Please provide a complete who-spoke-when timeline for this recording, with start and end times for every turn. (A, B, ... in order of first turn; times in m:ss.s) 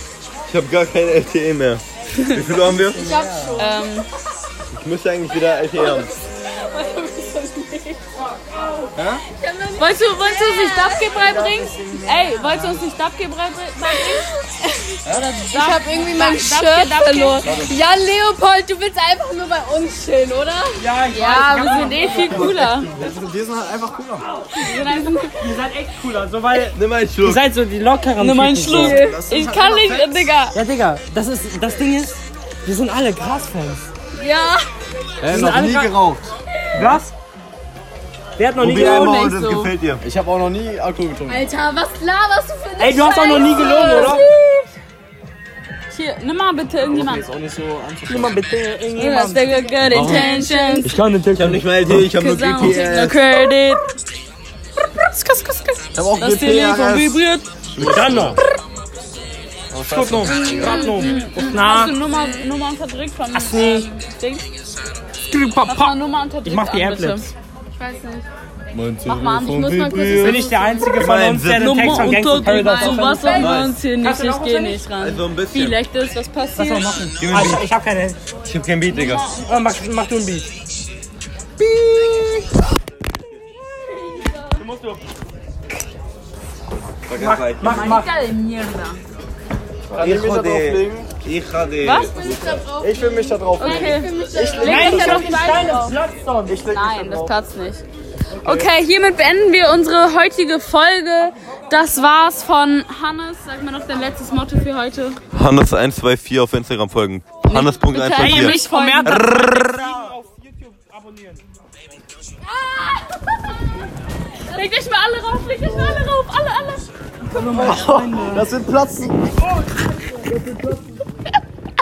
0:00.5-0:03.2 A
0:02.5-0:03.6 B
0:02.9-0:03.9 C
0:03.6-0:04.1 D
0:04.8-0:06.1 A
0:05.8-0:08.0 C
0:09.0-0:09.2 B
0:09.3-0:12.4 C
0:09.8-0:14.3 D
0:11.1-0:12.8 B
0:13.8-0:14.4 C
0:15.0-0:17.5 D
0:15.0-0:15.3 B
0:15.5-0:20.8 C
0:17.4-0:17.7 B
0:20.8-0:22.6 E
0:21.1-0:22.9 D
0:22.1-0:24.3 B
0:24.6-0:25.3 D
0:24.6-0:25.3 C
0:25.3-0:29.0 E
0:26.7-0:27.5 A
0:28.2-0:30.6 D
0:28.7-0:30.3 B
0:28.7-0:29.2 C
0:30.5-0:33.8 E
0:34.2-0:34.7 C
0:35.2-0:35.9 E
0:35.2-0:36.3 B
0:36.8-0:37.1 E
0:38.4-0:39.2 E
0:38.6-0:40.0 A
0:38.7-0:39.7 D
0:40.0-0:41.5 B
0:41.3-0:44.7 C
0:42.8-0:44.2 E
0:43.3-0:44.2 D
0:45.9-0:47.2 D
0:46.8-0:48.4 B
0:48.1-0:49.4 E
0:49.0-0:50.9 D
0:49.5-0:51.0 C
0:49.9-0:50.3 A
0:50.8-0:51.6 E
0:51.4-0:53.2 A
0:52.1-0:53.9 D
0:55.2-0:55.6 E
0:55.3-0:57.5 D
0:56.0-0:57.2 B
0:57.7-0:58.4 A
0:57.8-0:58.3 B
0:57.8-0:58.4 E
0:59.7-1:00.9 B
0:59.9-1:02.0 E
1:00.3-1:04.4 D
1:00.3-1:01.2 C
1:02.0-1:02.4 C
1:03.3-1:03.9 E
1:05.3-1:07.3 E
1:05.7-1:07.2 D
1:07.8-1:08.3 C
1:08.7-1:10.4 B
1:09.0-1:10.4 D
1:09.6-1:11.0 C
1:10.2-1:14.9 E
1:11.0-1:12.3 A
1:11.5-1:16.9 D
1:12.4-1:13.6 C
1:13.4-1:13.7 A
1:15.0-1:15.8 A
1:16.6-1:18.2 E
1:17.2-1:17.6 A
1:18.4-1:19.3 A
1:18.9-1:19.4 D
1:19.5-1:20.5 E
1:21.6-1:22.3 A
1:23.7-1:24.6 C
1:24.6-1:25.0 E
1:27.1-1:27.9 A
1:27.2-1:28.1 E
1:27.6-1:29.0 D
1:29.9-1:32.6 A
1:29.9-1:31.1 B
1:31.8-1:32.1 D
1:32.1-1:35.9 C
1:32.2-1:35.0 B
1:33.6-1:36.0 D
1:34.6-1:36.6 E
1:36.5-1:37.4 B
1:36.6-1:37.8 D
1:38.3-1:38.7 B
1:38.4-1:45.2 D
1:45.3-1:50.1 A
1:47.4-1:49.4 D
1:48.2-1:51.4 E
1:52.6-1:53.2 C
1:54.5-1:58.2 D
1:55.6-1:56.1 B
1:57.3-1:58.5 E
1:57.5-1:59.3 B
2:00.3-2:00.8 B